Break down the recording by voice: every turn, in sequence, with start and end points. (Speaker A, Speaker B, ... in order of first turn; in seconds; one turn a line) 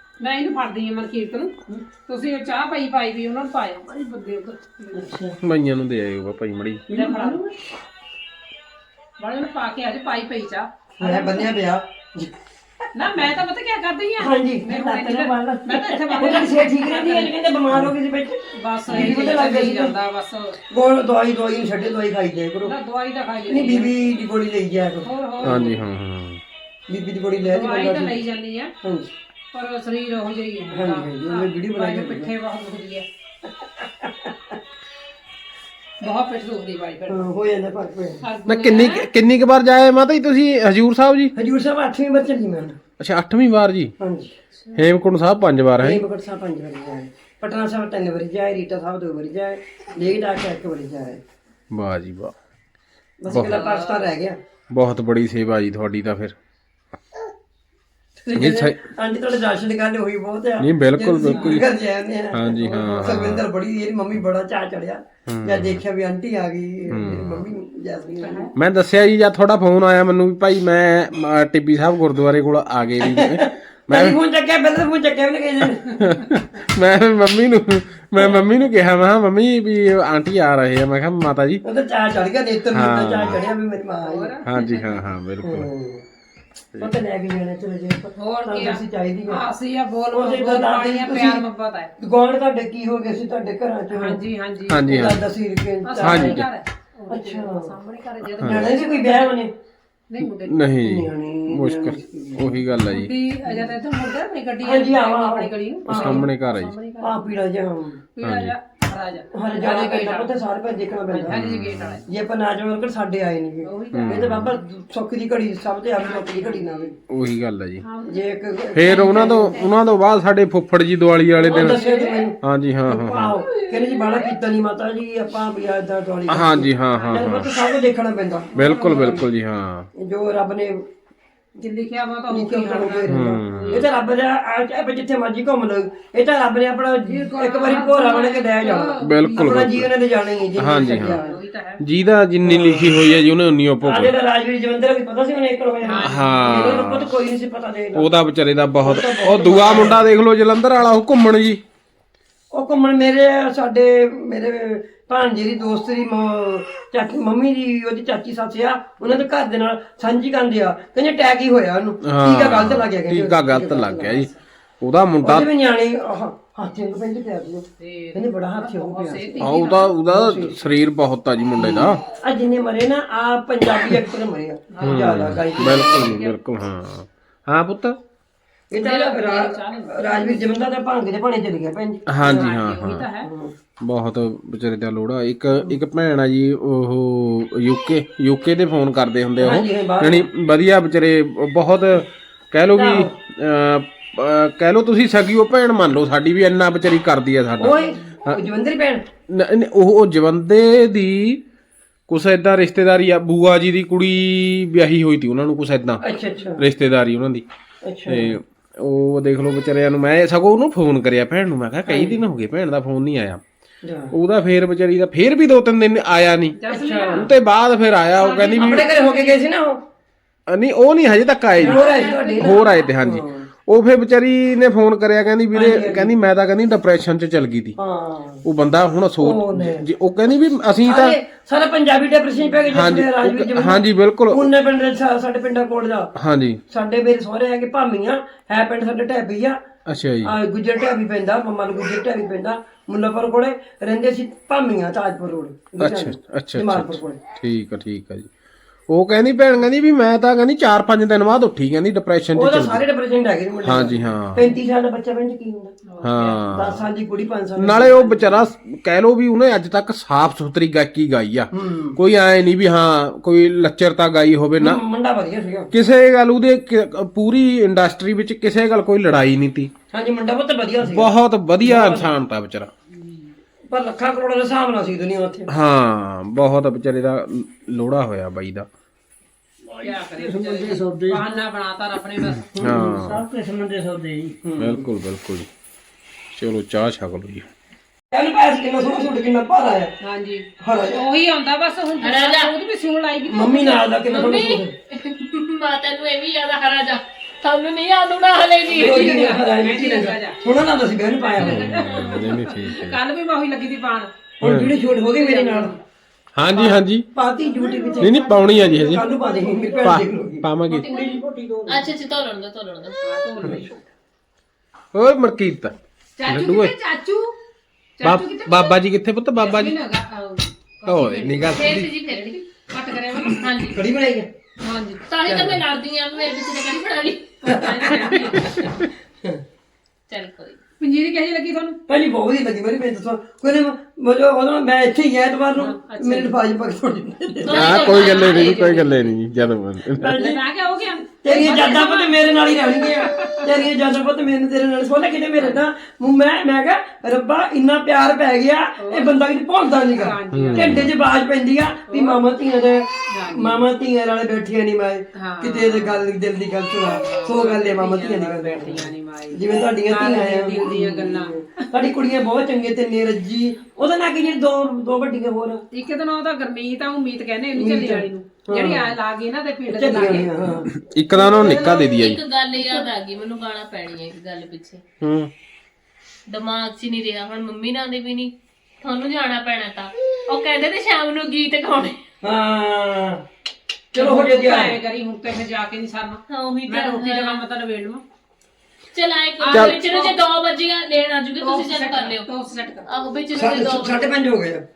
Speaker A: 0.2-5.1
Speaker B: 4.9-5.4
Speaker C: 5.4-6.8
Speaker D: 6.9-7.4
Speaker A: 6.9-7.5
Speaker A: 9.2-10.7
Speaker B: 11.0-11.5
Speaker D: 11.0-12.3
Speaker A: 12.9-17.3
Speaker D: 14.2-14.7
Speaker B: 14.7-16.2
Speaker D: 16.1-19.9
Speaker A: 18.5-20.6
Speaker D: 20.7-22.7
Speaker A: 22.6-23.9
Speaker D: 23.5-25.6
Speaker A: 25.0-25.8
Speaker C: 25.4-26.4
Speaker D: 26.9-28.2
Speaker A: 27.4-28.7
Speaker D: 28.8-29.1
Speaker A: 29.5-33.1
Speaker D: 30.7-32.3
Speaker D: 33.8-34.5
Speaker A: 36.0-37.3
Speaker D: 37.1-38.2
Speaker A: 38.2-39.1
Speaker C: 38.5-41.3
Speaker D: 41.4-42.8
Speaker C: 43.0-44.0
Speaker D: 44.0-44.4
Speaker C: 44.7-46.0
Speaker D: 45.8-51.2
Speaker C: 51.7-52.4
Speaker D: 53.2-54.4
Speaker C: 53.3-53.6
Speaker A: 53.4-54.1
Speaker C: 54.7-56.4
Speaker D: 58.2-68.5
Speaker C: 58.4-58.8
Speaker C: 60.6-61.7
Speaker A: 61.2-61.6
Speaker C: 62.3-63.5
Speaker A: 62.6-63.4
Speaker C: 65.3-65.8
Speaker C: 66.9-67.5
Speaker A: 68.2-68.5
Speaker C: 68.5-74.2
Speaker D: 73.0-76.1
Speaker C: 75.6-81.6
Speaker D: 81.6-84.3
Speaker C: 82.7-83.4
Speaker A: 84.0-84.9
Speaker C: 84.4-85.7
Speaker D: 85.4-86.0
Speaker D: 86.8-89.4
Speaker A: 88.2-91.9
Speaker D: 90.1-91.4
Speaker D: 92.0-94.2
Speaker A: 93.9-94.9
Speaker C: 94.7-95.3
Speaker D: 94.8-96.4
Speaker A: 95.8-99.4
Speaker C: 96.0-96.5
Speaker D: 97.1-97.8
Speaker C: 98.4-98.7
Speaker D: 98.4-99.5
Speaker A: 100.1-100.7
Speaker C: 100.2-103.1
Speaker D: 100.8-102.5
Speaker A: 102.8-107.3
Speaker D: 104.6-106.3
Speaker C: 105.9-106.8
Speaker D: 107.0-108.0
Speaker A: 108.2-110.3
Speaker C: 108.2-108.5
Speaker D: 109.3-111.4
Speaker A: 111.1-112.1
Speaker C: 111.3-112.0
Speaker D: 112.1-117.0
Speaker A: 113.6-114.5
Speaker C: 113.9-114.5
Speaker A: 116.0-116.8
Speaker C: 117.1-117.8
Speaker A: 117.8-118.3
Speaker D: 118.1-119.6
Speaker C: 118.7-121.9
Speaker A: 118.8-119.7
Speaker A: 121.4-122.3
Speaker D: 121.4-128.5
Speaker C: 122.4-123.4
Speaker A: 123.4-124.3
Speaker C: 126.3-127.5
Speaker A: 128.5-129.2
Speaker C: 128.6-129.9
Speaker D: 130.0-130.8
Speaker A: 131.6-133.9
Speaker D: 132.3-141.4
Speaker C: 133.1-133.9
Speaker A: 137.0-139.7
Speaker C: 139.0-139.9
Speaker C: 140.6-141.2
Speaker A: 140.7-141.8
Speaker C: 141.8-144.2
Speaker D: 142.4-143.2
Speaker D: 143.8-148.1
Speaker A: 145.8-146.9
Speaker C: 146.0-147.1
Speaker C: 147.9-151.6
Speaker D: 148.8-150.0
Speaker D: 152.5-164.3
Speaker C: 162.0-164.3
Speaker C: 164.8-165.5
Speaker D: 165.2-170.7
Speaker A: 167.8-169.9
Speaker C: 169.4-172.0
Speaker D: 171.6-176.2
Speaker A: 174.7-176.4
Speaker C: 174.8-178.0
Speaker D: 178.7-182.5
Speaker A: 178.8-180.6
Speaker C: 182.1-183.1
Speaker A: 182.2-183.3
Speaker D: 183.2-183.5
Speaker C: 183.8-198.4
Speaker D: 189.4-190.3
Speaker D: 192.8-193.1
Speaker D: 197.6-199.0
Speaker C: 199.3-201.4
Speaker C: 202.1-206.0
Speaker D: 206.0-206.6
Speaker C: 206.6-207.4
Speaker D: 207.8-208.4
Speaker C: 208.1-213.4
Speaker D: 211.9-212.2
Speaker D: 213.8-214.1
Speaker C: 214.1-216.6
Speaker A: 216.6-217.3
Speaker D: 216.7-217.3
Speaker C: 217.1-218.9
Speaker A: 218.1-219.4
Speaker D: 218.6-219.8
Speaker C: 220.5-227.8
Speaker D: 221.6-223.5
Speaker A: 221.6-222.8
Speaker D: 225.5-226.1
Speaker D: 227.8-228.4
Speaker C: 228.4-231.2
Speaker D: 229.2-229.9
Speaker D: 230.8-236.1
Speaker C: 232.7-234.4
Speaker C: 236.2-236.6
Speaker D: 236.7-239.6
Speaker C: 239.9-240.3
Speaker D: 240.2-247.2
Speaker C: 245.8-248.3
Speaker C: 248.9-252.8
Speaker D: 252.3-255.8
Speaker C: 253.6-254.5
Speaker A: 255.9-256.5
Speaker C: 256.0-256.9
Speaker D: 256.5-258.5
Speaker C: 257.6-264.8
Speaker D: 261.5-262.0
Speaker D: 264.6-265.7
Speaker C: 265.7-269.7
Speaker D: 269.9-271.1
Speaker C: 270.8-272.7
Speaker D: 271.7-272.1
Speaker D: 273.7-275.5
Speaker C: 275.5-278.7
Speaker B: 279.7-281.3
Speaker A: 279.8-282.5
Speaker C: 282.6-283.2
Speaker B: 282.6-284.4
Speaker D: 284.4-284.9
Speaker C: 284.6-285.5
Speaker C: 286.4-287.5
Speaker D: 288.1-289.9
Speaker A: 290.0-294.0
Speaker D: 290.6-291.0
Speaker E: 292.0-292.5
Speaker D: 293.3-294.7
Speaker E: 294.1-299.3
Speaker A: 298.7-300.4
Speaker D: 298.7-301.7
Speaker A: 301.2-304.1
Speaker C: 301.4-303.0
Speaker E: 301.9-302.2
Speaker C: 304.4-304.7
Speaker D: 304.4-305.7
Speaker A: 305.1-305.8
Speaker C: 306.4-307.1
Speaker D: 306.5-310.5
Speaker B: 307.4-310.0
Speaker C: 308.0-309.1
Speaker C: 309.8-310.9
Speaker B: 310.7-311.9
Speaker E: 310.7-313.0
Speaker A: 313.0-313.7
Speaker C: 314.9-316.7
Speaker A: 316.2-317.3
Speaker A: 318.0-318.8
Speaker C: 318.0-319.8
Speaker A: 319.4-323.5
Speaker C: 320.9-321.9
Speaker E: 321.5-322.4
Speaker E: 323.2-323.8
Speaker D: 323.7-324.3
Speaker A: 324.6-325.0
Speaker E: 325.1-328.5
Speaker D: 325.2-325.6
Speaker A: 327.4-328.7
Speaker D: 327.5-327.8
Speaker E: 330.1-330.6
Speaker A: 330.8-331.8
Speaker D: 331.9-338.0
Speaker A: 335.6-336.4
Speaker E: 337.4-338.9
Speaker C: 337.5-340.2
Speaker A: 337.6-339.0
Speaker D: 339.9-340.4
Speaker A: 340.2-343.5
Speaker D: 341.2-365.6
Speaker A: 348.8-350.9
Speaker C: 350.3-350.9
Speaker A: 351.9-352.2
Speaker A: 353.1-353.6
Speaker A: 355.1-356.1
Speaker A: 356.9-361.4
Speaker A: 365.7-370.4
Speaker D: 367.6-368.9
Speaker D: 369.7-370.7
Speaker C: 370.8-372.2
Speaker A: 371.1-371.9
Speaker E: 371.4-374.8
Speaker C: 375.0-375.3
Speaker E: 376.3-382.0
Speaker D: 382.2-383.2
Speaker D: 383.9-384.8
Speaker A: 383.9-388.0
Speaker E: 386.3-387.4
Speaker E: 388.9-392.3
Speaker A: 389.4-390.2
Speaker A: 391.4-392.9
Speaker E: 392.9-394.1
Speaker D: 393.4-394.6